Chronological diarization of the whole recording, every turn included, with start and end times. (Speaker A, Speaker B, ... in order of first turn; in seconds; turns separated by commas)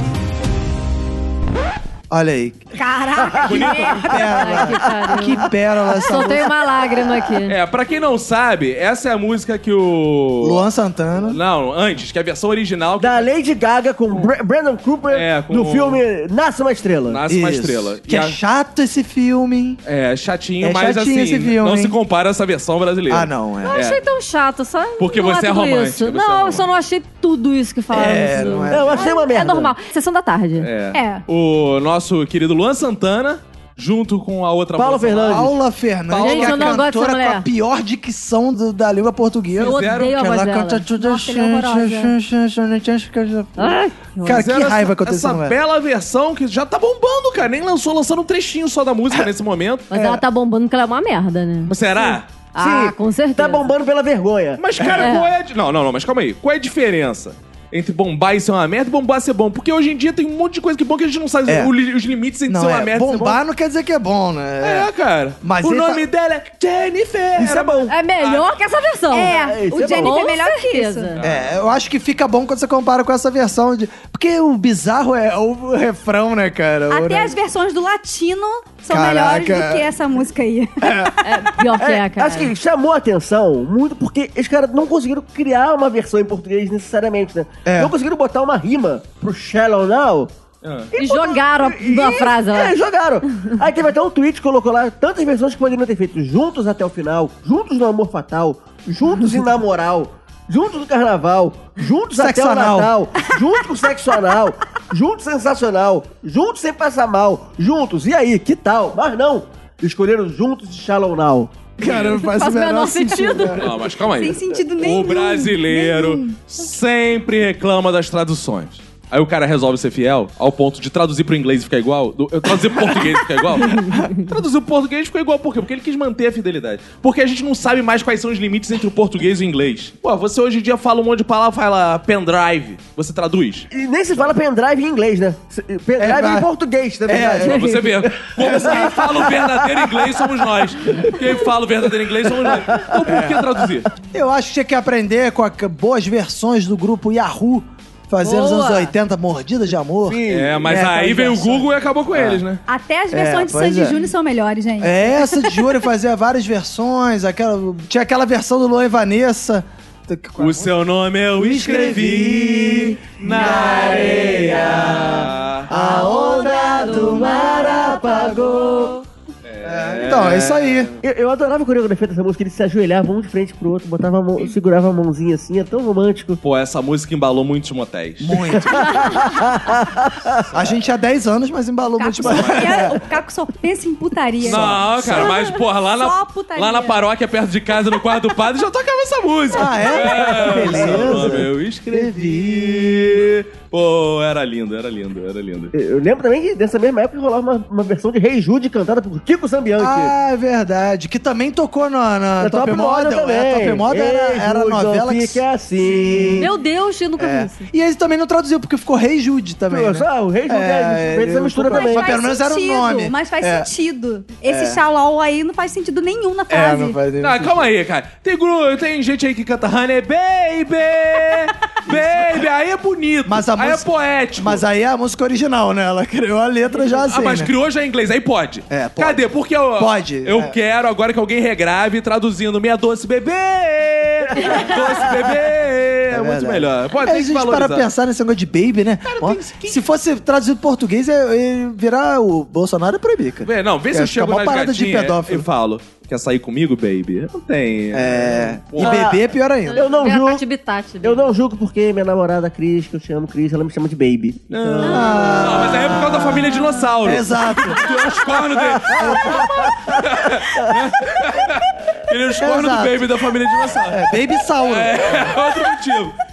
Speaker A: 2.1-2.7, Speaker B: 2.8-4.7, Speaker C: 3.4-3.7, Speaker D: 3.4-4.2, Speaker E: 3.7-7.5, Speaker A: 4.0-6.5, Speaker D: 7.5-10.6, Speaker A: 10.4-11.4, Speaker D: 11.2-13.3, Speaker C: 13.0-17.2, Speaker D: 15.1-16.0, Speaker D: 17.1-18.4, Speaker A: 17.3-19.8, Speaker D: 19.9-24.0, Speaker A: 20.6-22.0, Speaker A: 23.1-23.8, Speaker E: 23.6-30.7, Speaker D: 25.0-26.7, Speaker A: 27.9-29.1, Speaker C: 28.7-29.7, Speaker D: 30.6-35.5, Speaker B: 30.9-31.2, Speaker C: 34.8-35.5, Speaker A: 35.3-45.6, Speaker D: 36.1-36.8, Speaker E: 36.2-37.5, Speaker D: 39.6-40.2, Speaker E: 39.6-40.9, Speaker B: 41.0-42.1, Speaker E: 43.6-44.5, Speaker D: 44.3-49.9, Speaker E: 49.9-53.7, Speaker A: 49.9-50.2, Speaker D: 51.7-52.3, Speaker C: 52.6-54.6, Speaker D: 54.6-63.4, Speaker E: 55.0-55.3, Speaker A: 61.5-61.7, Speaker A: 62.5-66.0, Speaker D: 64.6-68.6, Speaker C: 67.4-67.9, Speaker E: 67.9-71.2, Speaker B: 69.1-71.2, Speaker C: 69.3-70.2, Speaker D: 71.2-71.6, Speaker A: 71.2-77.3, Speaker B: 76.9-81.1, Speaker A: 78.9-79.9, Speaker A: 80.8-81.1, Speaker E: 81.2-82.5, Speaker C: 81.7-90.3, Speaker A: 87.7-87.9, Speaker D: 90.6-90.9, Speaker C: 90.9-111.6, Speaker E: 91.0-92.8, Speaker A: 102.2-102.9, Speaker A: 111.8-113.7, Speaker D: 111.8-112.2, Speaker E: 111.8-113.7, Speaker D: 113.5-133.7, Speaker B: 114.1-116.2, Speaker C: 133.7-140.2, Speaker A: 136.0-136.5, Speaker A: 137.1-137.6, Speaker D: 137.5-143.9, Speaker A: 138.4-139.3, Speaker C: 140.9-141.2, Speaker C: 142.2-143.0, Speaker A: 143.1-143.4, Speaker A: 144.1-152.4, Speaker E: 148.2-148.9, Speaker C: 150.1-151.6, Speaker D: 150.3-152.6, Speaker B: 152.7-155.7, Speaker A: 153.1-154.0, Speaker A: 154.8-160.7, Speaker D: 160.4-165.7, Speaker A: 161.4-168.9, Speaker C: 163.7-165.3, Speaker C: 165.8-168.8, Speaker E: 166.5-167.7, Speaker E: 168.3-168.9, Speaker D: 169.5-170.9, Speaker A: 169.6-170.9, Speaker C: 171.0-176.4, Speaker D: 176.4-178.6, Speaker A: 178.2-179.2, Speaker C: 178.7-180.4, Speaker A: 180.5-183.0, Speaker B: 182.0-187.0, Speaker D: 182.2-182.9, Speaker A: 184.4-185.4, Speaker D: 184.4-195.7, Speaker A: 189.5-193.3, Speaker C: 190.1-191.5, Speaker C: 195.7-200.1, Speaker A: 199.8-206.5, Speaker C: 202.4-206.5, Speaker E: 206.4-207.7, Speaker A: 207.2-213.7, Speaker C: 209.7-212.2, Speaker B: 211.7-217.0, Speaker A: 214.5-214.8, Speaker A: 216.5-217.7, Speaker D: 217.2-224.6, Speaker A: 221.9-222.4, Speaker A: 223.3-223.9, Speaker A: 224.4-227.5, Speaker D: 226.9-237.9, Speaker A: 228.7-230.6, Speaker A: 236.1-245.5, Speaker D: 239.1-239.8, Speaker D: 243.4-249.2, Speaker A: 247.9-249.9, Speaker C: 248.8-249.2, Speaker E: 249.7-251.3, Speaker C: 249.8-250.4, Speaker C: 251.0-255.6, Speaker D: 254.5-266.2, Speaker A: 254.8-257.9, Speaker C: 258.5-260.0, Speaker A: 258.9-259.7, Speaker A: 262.4-263.1, Speaker A: 263.9-265.4